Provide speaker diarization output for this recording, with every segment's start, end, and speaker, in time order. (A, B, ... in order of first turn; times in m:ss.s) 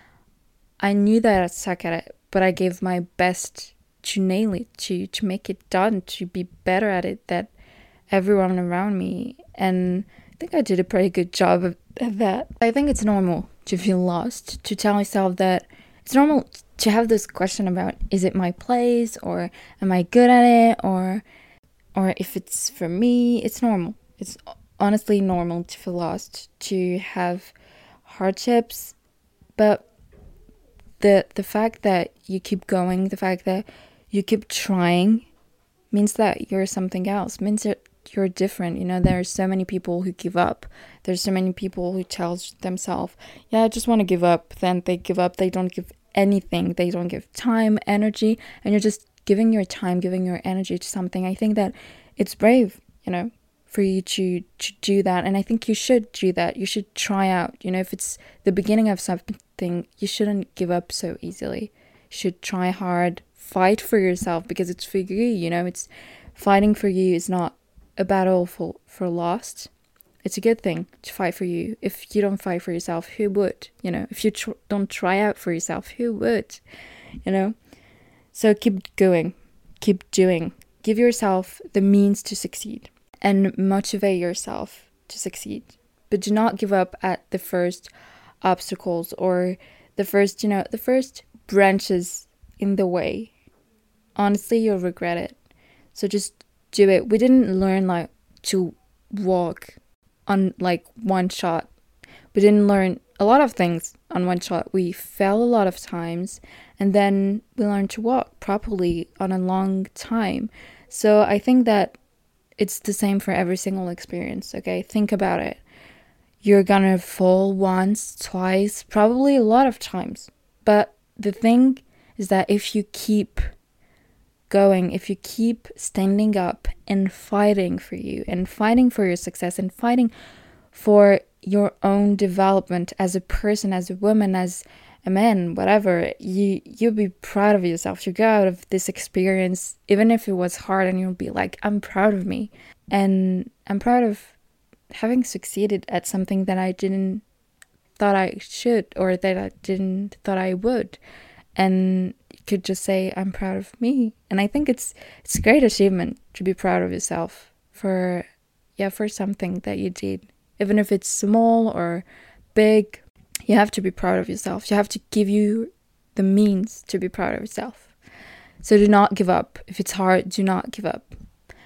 0:00.8-0:07.5 A
0:08.1-0:21.2 A
0:21.9-0:29.0 A
0:29.6-0:29.8 A
0:31.0-0:35.3 A
0:35.9-1:09.7 A
1:10.2-1:16.6 A
1:17.2-1:17.5 A
1:18.3-1:27.9 A
1:28.4-1:33.3 A
1:34.2-1:35.4 A
1:35.9-1:41.7 A
1:42.3-1:52.0 A
1:52.6-1:55.6 A
1:56.4-2:03.5 A
2:04.5-2:10.1 A
2:10.7-2:24.3 A
2:24.9-2:27.2 A
2:28.0-2:31.0 A
2:31.6-2:47.9 A
2:48.6-2:51.1 A